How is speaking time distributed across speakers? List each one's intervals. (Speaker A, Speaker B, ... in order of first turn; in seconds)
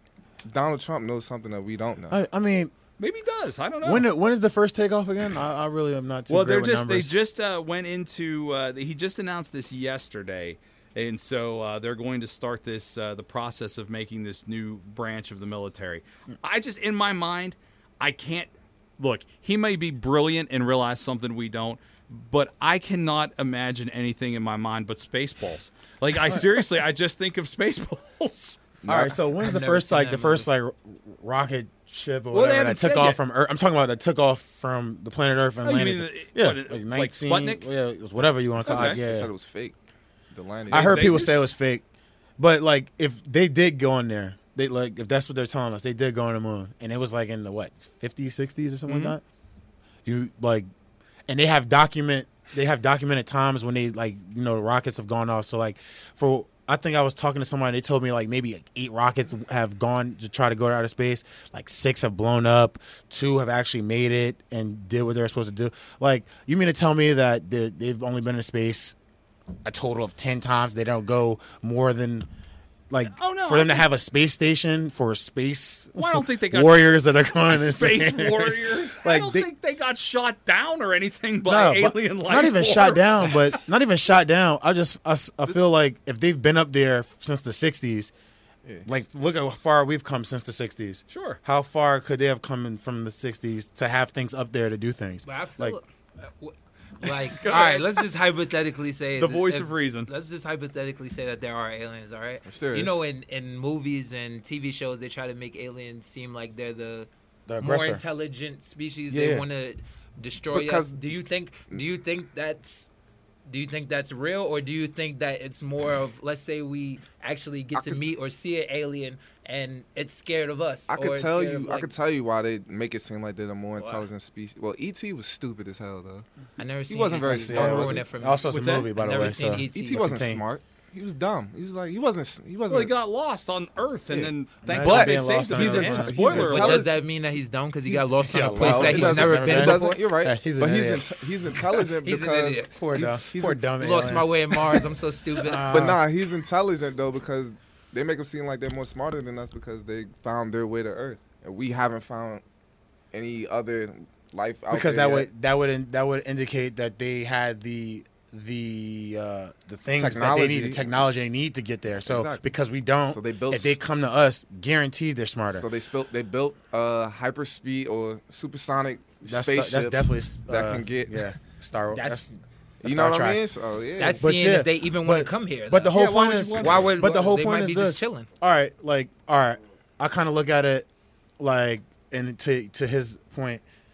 Speaker A: 0.4-2.2, 28.8-29.2, 38.6-39.8, 40.3-41.2, 102.5-103.0, 109.1-109.4, 110.5-111.0, 117.7-118.0, 120.9-126.2, 126.9-128.1, 129.7-132.9, 134.1-136.9, 138.6-143.6, 145.4-152.4, 153.1-155.3, 159.9-160.9, 162.0-162.4, 163.1-163.8, 165.5-171.3, 172.8-174.2, 176.7-176.9
Speaker B: 2.1-2.7, 3.8-7.2, 28.9-39.3, 40.7-41.8, 42.4-49.2, 50.0-50.7, 51.3-68.9, 69.6-72.3, 72.9-79.8, 81.4-88.1, 88.8-95.8, 107.5-108.0, 127.2-130.4, 134.6-136.4, 137.9-141.6, 142.8-144.8, 145.5-146.0, 154.7-165.7, 169.2-172.3, 172.8-173.4, 174.2-180.9, 181.4-183.6
Speaker C: 3.0-4.0, 6.3-28.6, 32.3-33.2, 35.6-37.7, 38.7-39.0, 40.7-41.4, 48.9-49.1, 73.0-73.8, 76.0-83.5, 91.1-91.4, 97.3-98.0, 99.2-100.1, 128.5-128.9, 132.7-136.8, 175.8-176.9
Speaker D: 29.3-30.5, 95.2-107.1, 107.6-112.9, 113.5-121.9, 123.8-124.1, 126.6-130.1, 136.2-140.0, 142.0-143.1, 143.8-145.7, 171.9-172.4, 174.0-176.0, 176.6-178.3